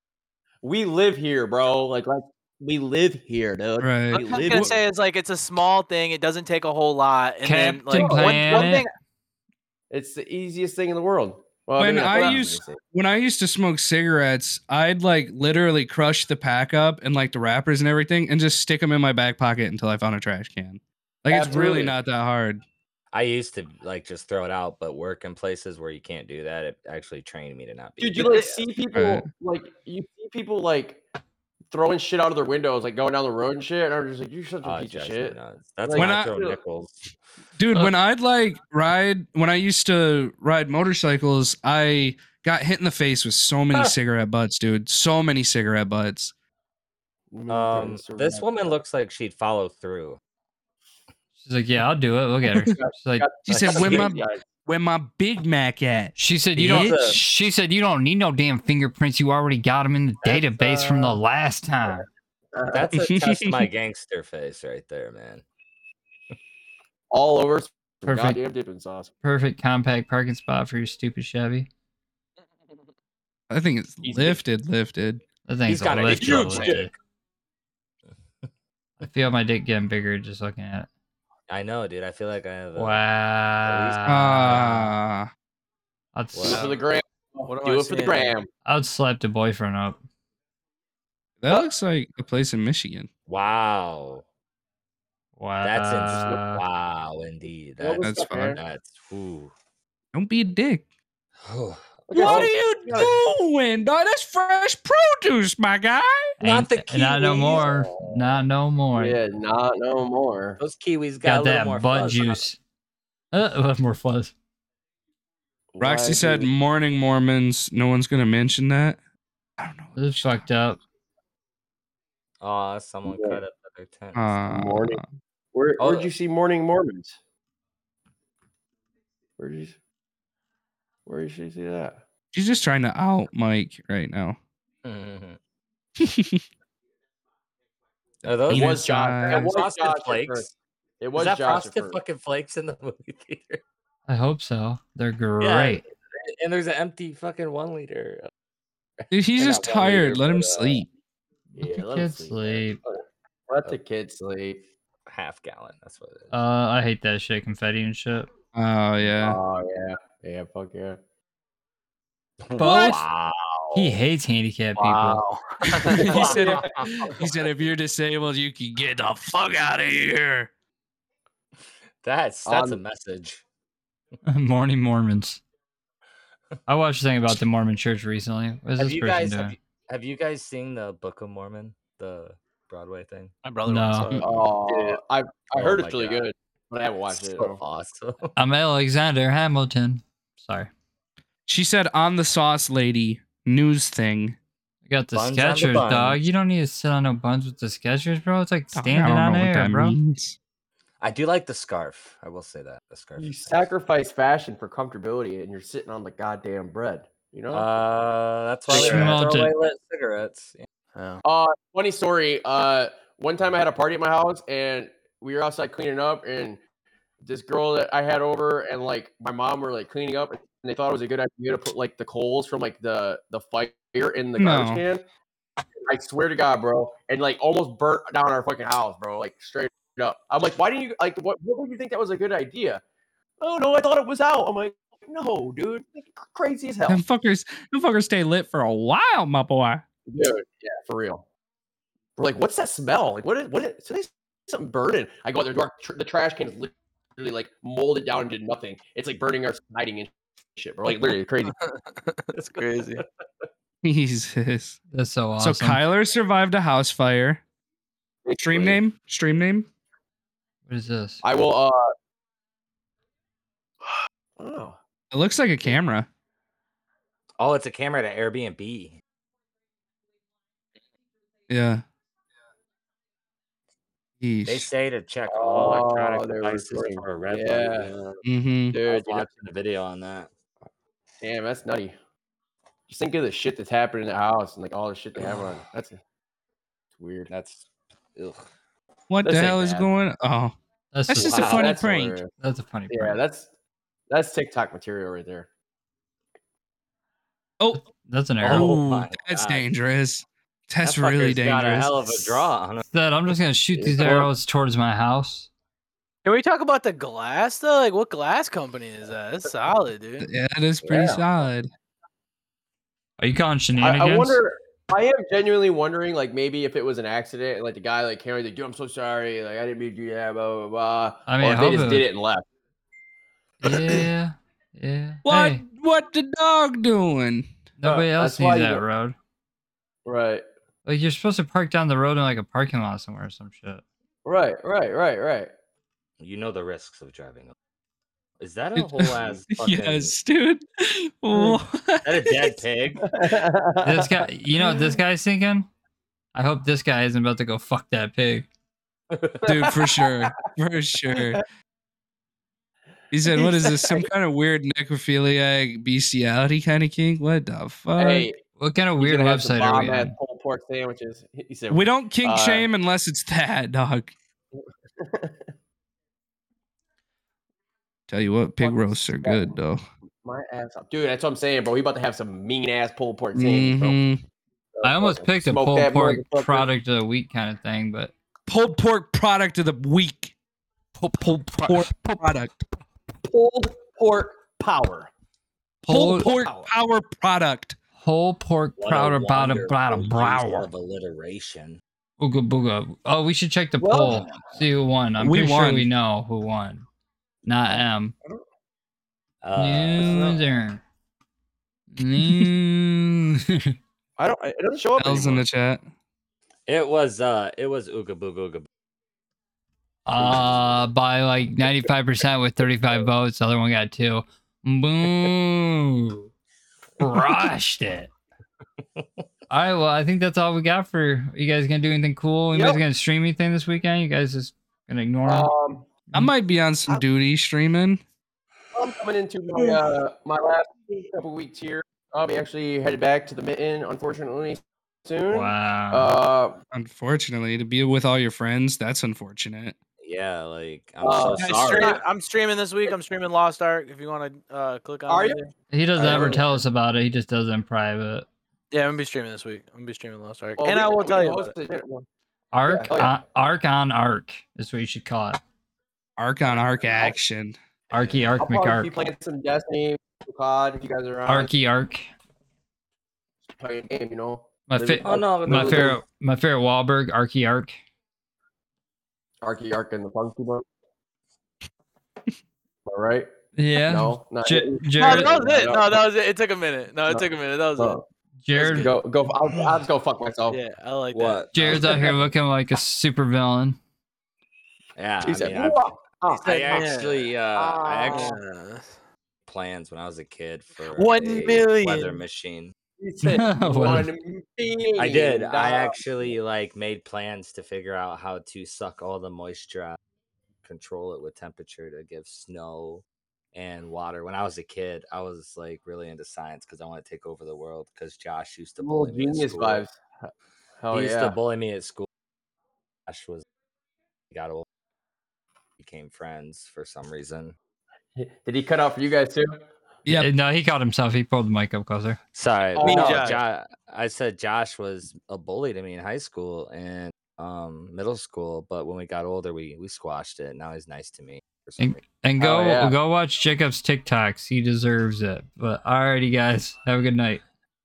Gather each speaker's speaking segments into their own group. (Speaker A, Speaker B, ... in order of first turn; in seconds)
Speaker A: 0.6-4.8, 7.9-8.8, 9.9-12.8, 21.3-21.9, 28.0-31.0, 31.7-36.6, 47.3-48.8, 52.7-54.4, 62.6-62.9, 67.1-69.1, 74.0-74.4, 76.0-76.8, 86.4-88.5, 97.8-98.6, 102.1-103.2, 107.4-108.3, 109.0-110.6, 115.7-116.5, 123.1-123.4, 124.4-125.0, 125.5-127.2, 129.4-129.8, 131.1-132.0, 138.5-142.0, 151.6-154.6, 159.0-161.0, 164.8-167.1, 172.4-172.8, 184.2-187.6, 203.2-207.7, 208.7-209.4, 211.2-216.6, 217.2-225.1, 225.9-232.8, 233.4-237.0, 240.1-241.2, 242.2-251.6, 258.2-258.8, 261.2-261.9, 264.4-264.8, 275.3-277.9, 278.7-279.4, 281.2-281.9, 282.9-286.0, 287.0-287.3, 289.2-289.9, 291.2-292.3, 292.9-293.5, 294.1-295.5, 303.8-304.3, 310.9-311.2, 313.8-322.4, 327.8-328.8, 330.1-330.5, 334.2-335.5, 341.3-341.6, 343.0-344.9, 349.5-350.3, 353.3-354.1, 358.0-358.4, 359.0-362.7, 365.0-365.4, 368.6-369.6, 370.2-374.0, 374.7-376.7, 383.2-385.1, 386.2-386.7, 393.8-394.2, 404.2-405.4, 410.2-410.4, 422.5-422.8, 425.3-425.9, 428.7-436.6, 441.0-442.0, 445.1-445.4, 445.9-446.6, 450.6-452.1, 452.6-453.1, 458.4-461.5, 463.6-466.0, 469.4-470.6, 472.9-473.3, 473.9-476.0, 477.8-478.1, 478.6-480.6, 485.2-486.9, 487.5-488.4, 493.0-496.4, 508.8-511.4, 518.2-519.6, 522.8-523.4, 532.4-533.0
Speaker B: 3.8-4.8, 11.8-22.6, 28.9-29.3, 36.0-36.3, 37.6-46.3, 53.5-56.1, 62.9-63.6, 73.5-75.2, 84.1-85.3, 91.4-93.1, 98.0-98.6, 100.1-100.8, 102.1-106.3, 115.8-119.0, 119.6-119.9, 124.2-125.1, 132.3-134.4, 136.0-136.4, 138.5-139.5, 149.1-150.9, 158.5-159.4, 165.9-170.5, 191.5-194.4, 198.7-200.4, 224.4-224.8, 236.9-239.8, 253.8-254.8, 255.4-257.4, 258.4-259.7, 265.1-266.1, 271.5-271.8, 274.2-274.7, 278.2-278.8, 289.1-290.6, 291.1-292.2, 298.4-302.4, 310.2-311.7, 325.2-327.5, 338.8-342.3, 349.5-351.4, 353.1-358.3, 361.7-364.1, 368.1-369.8, 373.4-374.2, 378.5-380.3, 381.4-382.5, 385.9-387.8, 395.2-395.9, 402.2-402.5, 405.0-405.8, 426.1-428.0, 436.7-439.8, 456.2-457.6, 520.0-520.3
Speaker C: 4.1-8.9, 87.5-88.4, 183.4-185.0, 210.9-211.2, 251.7-253.0, 306.2-310.3, 441.4-445.5, 448.7-451.5, 475.0-478.0, 478.6-478.9, 480.5-482.1, 486.6-487.4, 488.0-488.9, 490.9-492.2, 522.8-523.4
Speaker D: 7.4-8.9, 51.4-53.3, 56.2-62.1, 68.1-68.4, 69.2-71.7, 75.5-76.9, 79.0-80.9, 82.8-85.0, 86.2-86.7, 88.7-90.0, 95.4-96.6, 106.4-109.2, 111.2-112.6, 113.3-114.3, 120.0-120.8, 144.1-145.8, 151.6-152.8, 156.3-158.3, 162.6-163.0, 163.7-165.2, 174.3-175.4, 176.7-179.6, 183.7-184.2, 188.4-190.7, 194.9-200.0, 208.7-209.5, 254.9-255.8, 260.7-261.2, 290.9-291.5, 292.4-293.2, 297.7-298.7, 302.9-305.5, 313.2-314.4, 321.3-322.1, 323.6-325.6, 327.8-329.2, 330.9-333.8, 343.8-345.7, 346.3-348.5, 358.6-360.1, 374.8-378.1, 381.0-381.9, 385.8-386.3, 388.0-390.7, 392.2-396.9, 397.4-398.1, 399.6-400.8, 401.9-403.8, 410.1-416.3, 417.0-418.1, 419.5-425.5, 435.3-436.1, 445.7-448.3, 452.5-455.4, 457.9-459.1, 461.3-462.1, 464.7-467.8, 473.6-475.6, 478.4-479.0, 481.5-483.8, 493.2-494.1, 520.1-522.2, 531.8-537.4
Speaker E: 23.1-28.6, 34.6-37.0, 47.5-50.2, 53.5-54.1, 56.5-57.2, 60.2-61.2, 62.7-65.4, 75.7-76.9, 81.5-83.0, 83.6-84.5, 86.3-86.7, 93.3-94.2, 95.6-99.5, 101.4-103.0, 106.4-107.8, 110.6-112.4, 122.4-124.4, 125.8-126.1, 134.8-135.4, 138.2-140.5, 141.2-143.6, 145.4-148.3, 149.4-150.8, 155.1-156.3, 162.5-164.0, 166.2-167.1, 172.0-173.4, 178.8-183.3, 185.6-186.3, 187.1-188.3, 195.1-196.2, 201.0-203.6, 207.5-210.7, 267.4-269.0, 274.5-278.2, 278.8-280.3, 287.3-287.6, 288.1-288.4, 291.2-291.7, 298.4-299.7, 300.8-302.8, 336.2-337.6, 338.4-340.1, 342.0-343.1, 349.1-349.5, 388.8-391.8, 394.1-394.6, 399.4-400.3, 406.7-408.7, 440.0-442.0, 457.9-458.3, 465.0-466.0, 481.1-482.0, 485.0-488.4, 489.5-492.7, 495.0-500.0, 500.6-509.8, 510.9-512.1, 513.1-513.4, 514.3-514.6, 515.8-517.6, 522.3-532.0